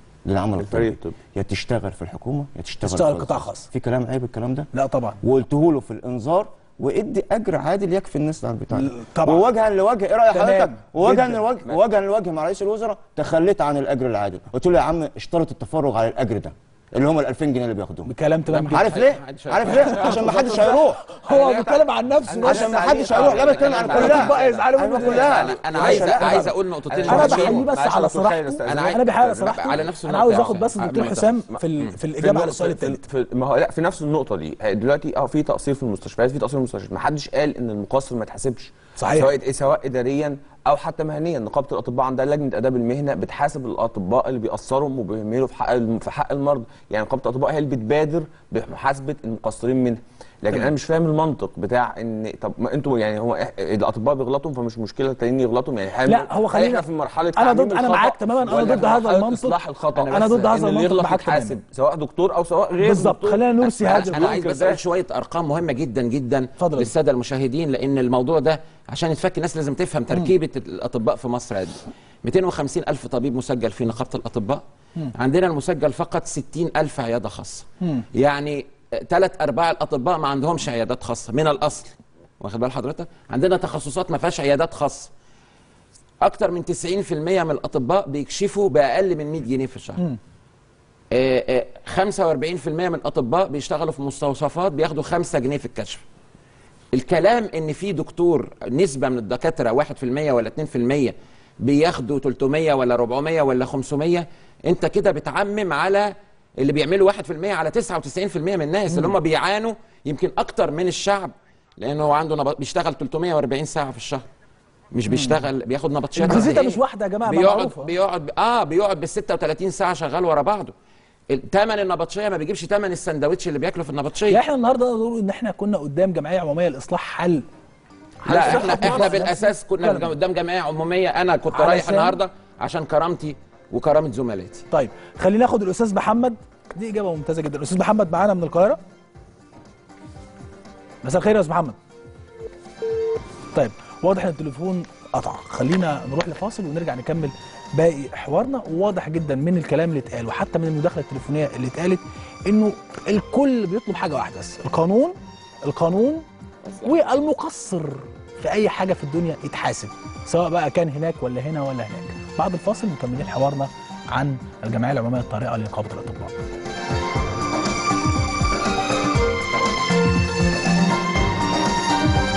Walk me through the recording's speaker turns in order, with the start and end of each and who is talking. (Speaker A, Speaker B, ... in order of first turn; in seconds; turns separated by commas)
Speaker A: 0.3-4.7, Speaker B: 0.6-1.2, Speaker C: 2.8-3.7, Speaker C: 4.7-5.2, Speaker A: 5.2-18.1, Speaker C: 8.7-9.4, Speaker C: 10.3-11.4, Speaker C: 18.1-18.9, Speaker D: 18.5-20.4, Speaker A: 18.7-21.0, Speaker C: 19.8-23.1, Speaker B: 21.1-29.9, Speaker A: 22.4-26.5, Speaker D: 23.2-27.7, Speaker C: 23.9-25.4, Speaker C: 27.1-33.0, Speaker D: 28.7-28.9, Speaker D: 29.5-31.3, Speaker B: 32.2-64.8, Speaker C: 39.0-39.3, Speaker C: 56.1-61.6, Speaker D: 60.0-60.5, Speaker C: 62.8-64.3, Speaker D: 63.6-74.6, Speaker C: 66.6-66.9, Speaker D: 75.2-85.1, Speaker D: 86.2-90.0, Speaker D: 91.1-96.0, Speaker D: 96.9-114.2, Speaker D: 114.9-120.7, Speaker C: 115.1-115.4, Speaker C: 116.2-117.9, Speaker D: 121.3-124.4, Speaker C: 124.3-127.5, Speaker B: 128.2-129.2, Speaker C: 128.2-130.1, Speaker D: 128.3-134.7, Speaker C: 131.5-132.2, Speaker C: 134.7-138.8, Speaker C: 141.0-141.8, Speaker C: 143.5-156.2, Speaker C: 156.8-166.3